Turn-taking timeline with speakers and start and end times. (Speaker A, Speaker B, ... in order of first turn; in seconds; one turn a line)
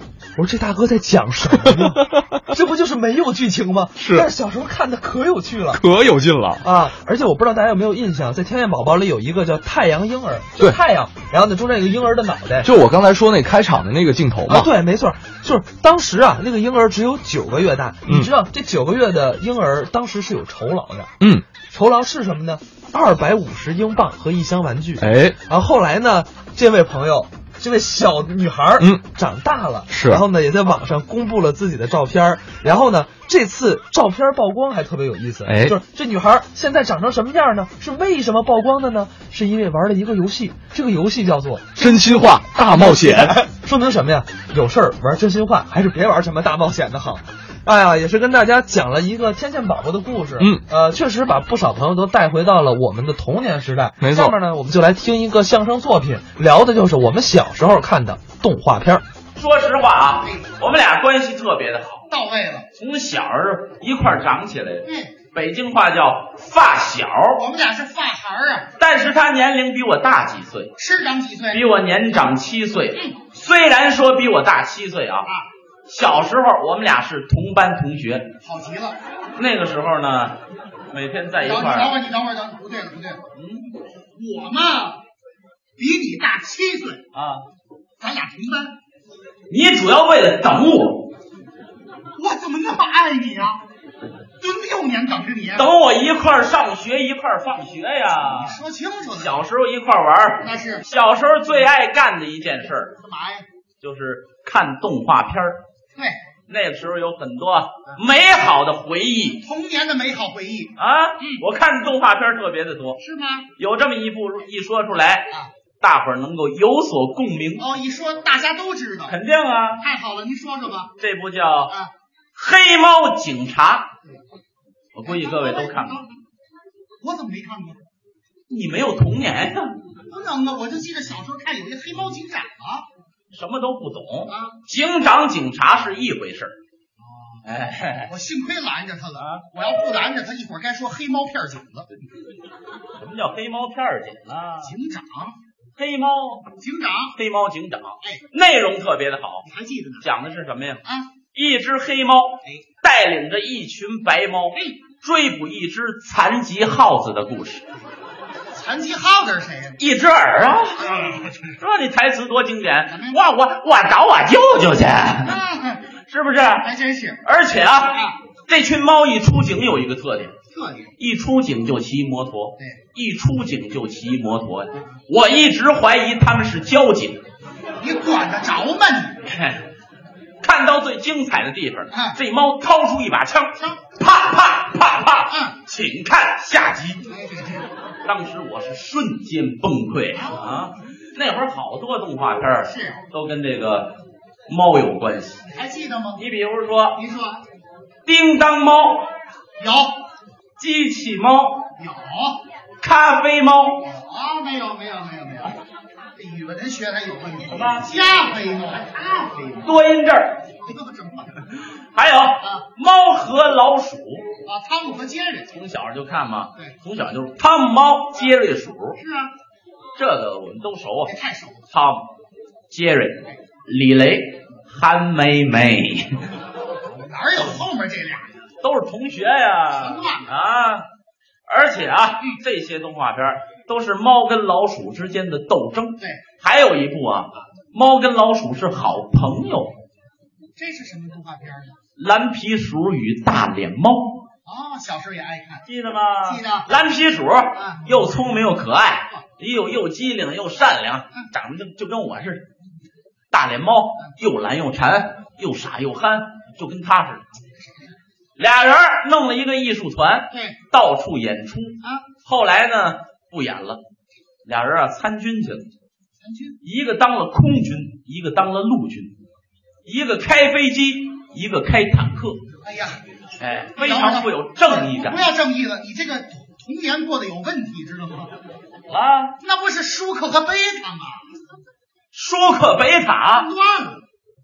Speaker A: 0.4-5.8
Speaker B: 1.7-2.3
Speaker B: 4.0-4.3
Speaker B: 5.7-6.7
Speaker A: 6.6-12.7
Speaker B: 12.6-14.7
Speaker A: 14.5-21.1
Speaker B: 21.2-21.5
Speaker A: 21.7-59.0
Speaker B: 25.0-25.4
Speaker B: 29.9-30.2
Speaker B: 35.5-35.8
Speaker B: 41.8-43.4
Speaker B: 54.0-54.4
Speaker C: 59.4-62.1
Speaker D: 62.1-62.7
Speaker C: 62.8-67.4
Speaker D: 64.8-65.1
Speaker D: 67.4-68.7
Speaker C: 68.8-70.7
Speaker D: 70.8-71.6
Speaker C: 71.5-75.3
Speaker C: 75.9-78.3
Speaker D: 78.4-79.0
Speaker C: 79.4-80.4
Speaker C: 80.9-81.9
Speaker D: 81.4-83.2
Speaker C: 83.3-83.7
Speaker D: 84.1-85.0
Speaker D: 85.8-87.0
Speaker C: 87.1-87.5
Speaker D: 88.0-88.8
Speaker C: 89.5-91.1
Speaker D: 92.2-93.6
Speaker D: 94.4-95.7
Speaker C: 95.6-98.6
Speaker D: 98.2-99.4
Speaker C: 99.2-103.0
Speaker D: 100.4-100.8
Speaker D: 103.0-103.5
Speaker C: 103.8-105.6
Speaker C: 106.5-109.4
Speaker D: 109.4-111.4
Speaker C: 110.8-113.0
Speaker D: 113.0-113.5
Speaker C: 113.6-117.6
Speaker D: 117.6-119.2
Speaker C: 119.1-119.8
Speaker D: 119.8-120.9
Speaker C: 121.0-121.8
Speaker C: 122.3-123.9
Speaker C: 124.9-126.0
Speaker D: 125.0-126.2
Speaker D: 127.0-127.8
Speaker C: 128.5-129.8
Speaker D: 130.1-132.9
Speaker C: 133.3-136.6
Speaker D: 134.3-134.6
Speaker D: 137.0-137.4
Speaker C: 137.4-138.1
Speaker D: 138.1-141.9
Speaker C: 139.2-139.4
Speaker C: 143.0-144.7
Speaker D: 144.6-145.4
Speaker C: 145.8-146.5
Speaker D: 146.6-147.2
Speaker C: 147.2-149.5
Speaker D: 149.4-150.1
Speaker C: 150.0-150.8
Speaker D: 150.8-151.1
Speaker C: 151.3-157.7
Speaker D: 158.5-159.8
Speaker C: 159.8-161.0
Speaker D: 160.9-161.5
Speaker C: 161.6-165.4
Speaker D: 162.9-163.2
Speaker D: 165.2-165.9
Speaker C: 166.1-166.7
Speaker D: 166.6-167.2
Speaker C: 167.2-170.3
Speaker D: 170.5-170.9
Speaker C: 171.0-177.2
Speaker D: 177.8-179.2
Speaker C: 179.3-179.6
Speaker C: 180.4-187.0
Speaker D: 181.9-182.2
Speaker D: 185.3-185.6
Speaker D: 187.1-187.7
Speaker C: 188.0-193.9
Speaker D: 190.2-190.7
Speaker D: 192.6-193.1
Speaker C: 194.5-195.4
Speaker D: 195.5-196.2
Speaker C: 196.2-197.0
Speaker D: 197.0-197.4
Speaker C: 198.1-199.1
Speaker D: 199.6-200.0
Speaker C: 200.6-201.7
Speaker D: 201.8-202.4
Speaker C: 202.8-203.8
Speaker D: 203.8-205.6
Speaker D: 206.2-209.8
Speaker C: 207.5-207.9
Speaker C: 209.7-210.4
Speaker D: 210.6-211.5
Speaker C: 211.9-214.3
Speaker D: 214.4-215.5
Speaker C: 215.5-219.0
Speaker D: 219.0-219.3
Speaker C: 220.0-221.1
Speaker D: 221.1-221.7
Speaker C: 221.7-222.1
Speaker C: 222.7-226.2
Speaker D: 226.9-228.5
Speaker C: 228.6-230.9
Speaker D: 229.7-230.3
Speaker C: 231.5-239.7
Speaker D: 240.6-241.8
Speaker C: 242.0-244.2
Speaker D: 244.4-245.6
Speaker C: 245.7-252.4
Speaker D: 246.2-246.7
Speaker D: 247.6-247.9
Speaker C: 253.3-257.2
Speaker D: 257.6-258.0
Speaker C: 258.4-263.8
Speaker D: 260.3-260.6
Speaker C: 264.4-265.7
Speaker D: 266.2-266.6
Speaker C: 266.6-269.1
Speaker C: 269.9-272.4
Speaker D: 272.6-273.0
Speaker C: 273.4-275.2
Speaker D: 273.8-278.4
Speaker C: 278.9-279.4
Speaker D: 279.4-281.3
Speaker C: 282.1-283.5
Speaker D: 283.3-284.0